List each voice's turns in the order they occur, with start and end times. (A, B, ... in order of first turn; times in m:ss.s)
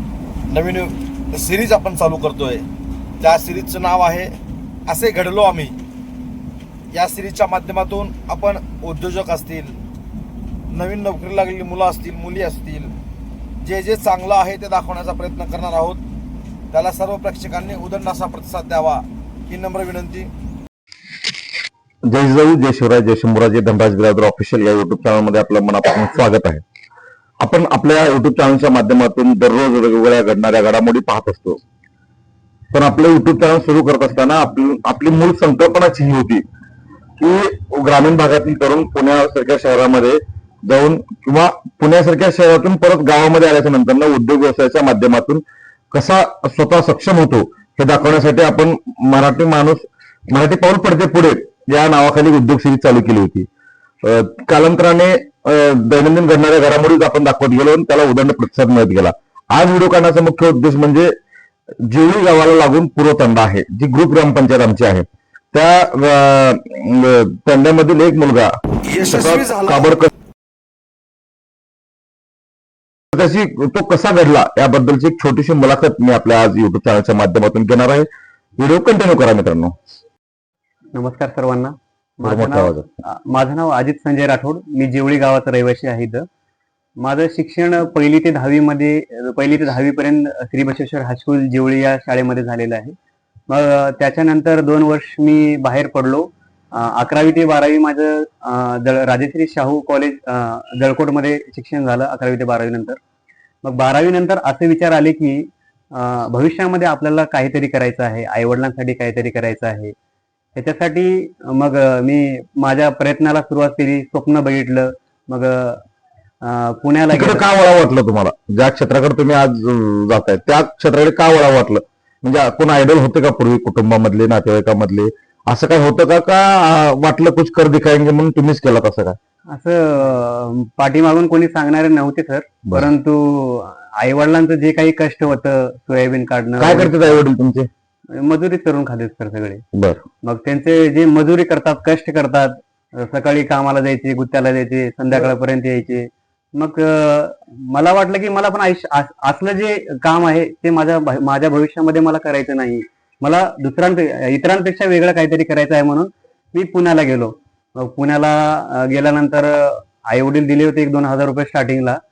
0:00.5-0:02.6 A
0:03.2-0:04.3 A
0:04.9-0:05.8 A
0:06.9-0:09.8 A
0:10.7-0:12.9 A
0:13.6-0:16.0 A
0:16.7-0:20.3 A
0:22.1-0:26.6 B
0:27.4-0:31.6 B
0:32.7-0:36.4 B
0:37.2-0:53.5 B
0:54.0-1:01.1 B
1:01.8-1:10.1 B
1:08.8-1:09.9 A
1:13.1-1:18.1 B
1:18.6-1:19.8 B
1:20.9-1:26.2 C
1:22.2-1:22.9 B
1:27.0-1:32.9 C
1:33.5-1:43.0 C
1:43.6-1:49.9 C
1:50.5-1:55.8 C
1:56.4-1:57.5 C
1:57.1-2:09.2 B
2:09.5-2:17.2 C
2:16.6-2:17.7 B
2:18.1-2:19.6 C
2:19.7-2:20.0 B
2:20.2-2:42.0 C